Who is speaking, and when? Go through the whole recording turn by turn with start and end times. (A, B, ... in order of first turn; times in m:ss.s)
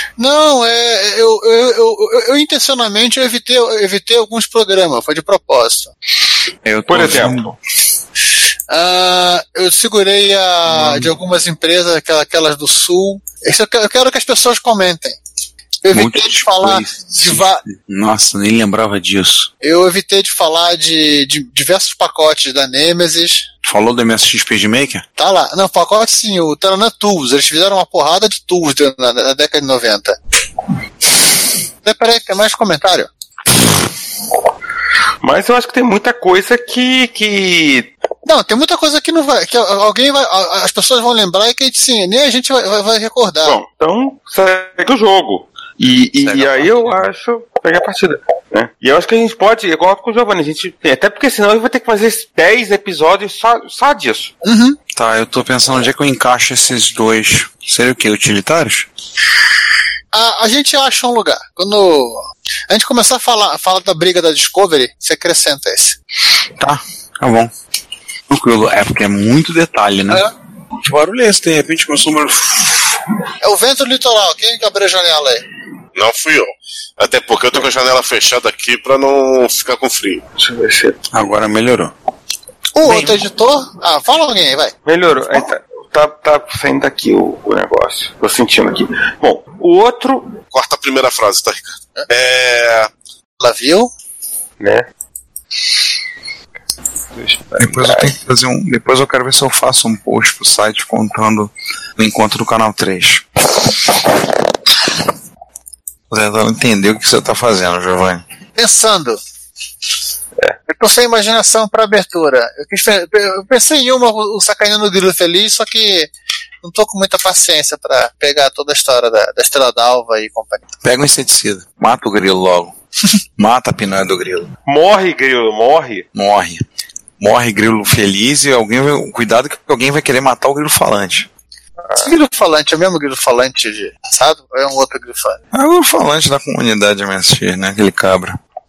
0:00.2-0:05.9 A
0:06.6-0:07.6 B
0:06.9-0:07.5 C
0:08.7-0:15.2 A
0:10.7-0:11.1 B
0:15.8-0:17.6 A
0:15.9-0:19.5 B
0:19.6-0:23.5 A
0:23.6-0:25.0 B
0:25.2-0:30.2 A
0:31.8-0:33.1 A
0:35.2-0:37.9 C
0:38.2-0:43.6 A
0:43.4-0:54.3 C
0:46.2-0:47.1 B
0:54.4-0:54.8 A
0:54.9-0:58.9 B
1:00.1-1:06.0 A
1:06.6-1:07.5 B
1:08.3-1:10.3 B
1:10.8-1:13.0 B
1:13.4-1:15.4 A
1:15.9-1:20.2 D
1:20.4-1:21.0 C
1:21.1-1:21.9 B
1:22.8-1:24.7 A
1:22.8-1:23.2 B
1:24.8-1:30.3 C
1:30.5-1:32.9 D
1:33.4-1:33.9 A
1:34.6-1:34.9 C
1:37.1-1:38.1 C
1:37.6-1:43.7 B
1:46.1-1:48.2 B
1:48.6-1:49.2 A
1:50.7-1:56.1 A
1:56.6-2:00.7 A
2:00.8-2:02.7 B
2:03.4-2:04.5 B
2:04.6-2:06.1 C
2:06.1-2:06.6 B
2:07.2-2:11.3 B
2:12.0-2:15.4 A
2:15.5-2:18.4 B